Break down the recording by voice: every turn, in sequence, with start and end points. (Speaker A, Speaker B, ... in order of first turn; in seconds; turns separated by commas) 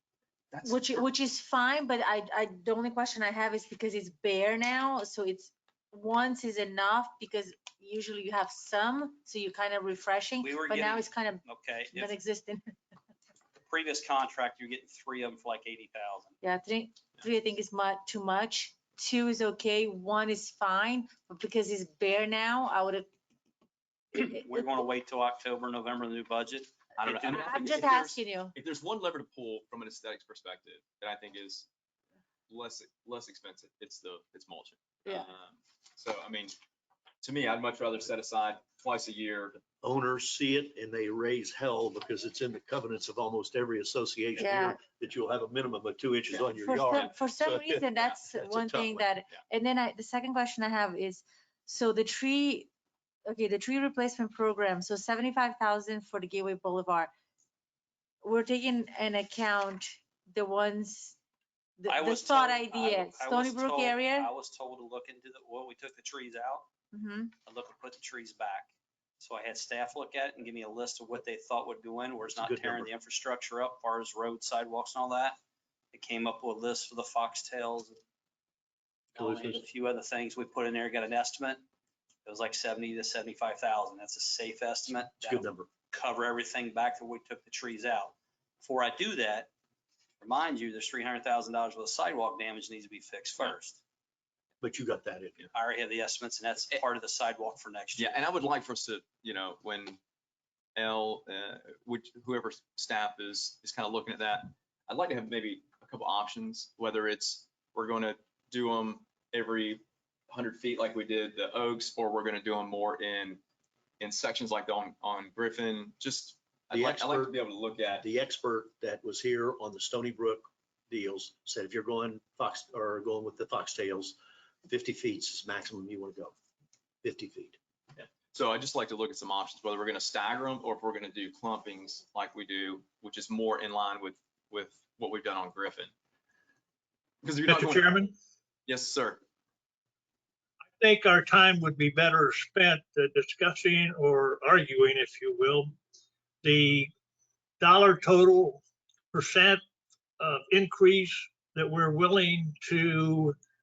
Speaker A: 0.6-12.7, Speaker B: 10.4-12.1, Speaker B: 13.7-16.4, Speaker A: 16.4-23.1, Speaker B: 24.1-27.8, Speaker A: 24.2-24.7, Speaker C: 27.0-31.7, Speaker A: 27.3-28.6, Speaker C: 32.5-36.6, Speaker C: 37.2-39.6, Speaker D: 39.8-49.0, Speaker A: 44.4-44.8, Speaker A: 46.4-52.7, Speaker A: 53.3-57.1, Speaker A: 58.2-61.2, Speaker A: 61.8-64.3, Speaker B: 61.9-66.7, Speaker A: 66.9-67.3, Speaker B: 67.5-75.4, Speaker D: 72.4-72.9, Speaker B: 75.9-78.0, Speaker B: 79.2-81.7, Speaker D: 79.2-79.6, Speaker B: 82.2-89.5, Speaker D: 85.2-85.7, Speaker B: 90.2-93.8, Speaker D: 94.6-95.5, Speaker B: 95.5-98.2, Speaker C: 98.0-100.0, Speaker C: 100.8-113.4, Speaker C: 114.0-118.1, Speaker D: 116.7-117.4, Speaker D: 118.0-126.3, Speaker D: 127.0-127.6, Speaker C: 128.0-135.9, Speaker C: 137.2-138.0, Speaker E: 137.5-138.1, Speaker C: 138.7-139.2, Speaker E: 140.8-145.7, Speaker E: 146.4-146.9, Speaker E: 147.6-148.6, Speaker E: 149.1-149.6, Speaker E: 150.2-153.3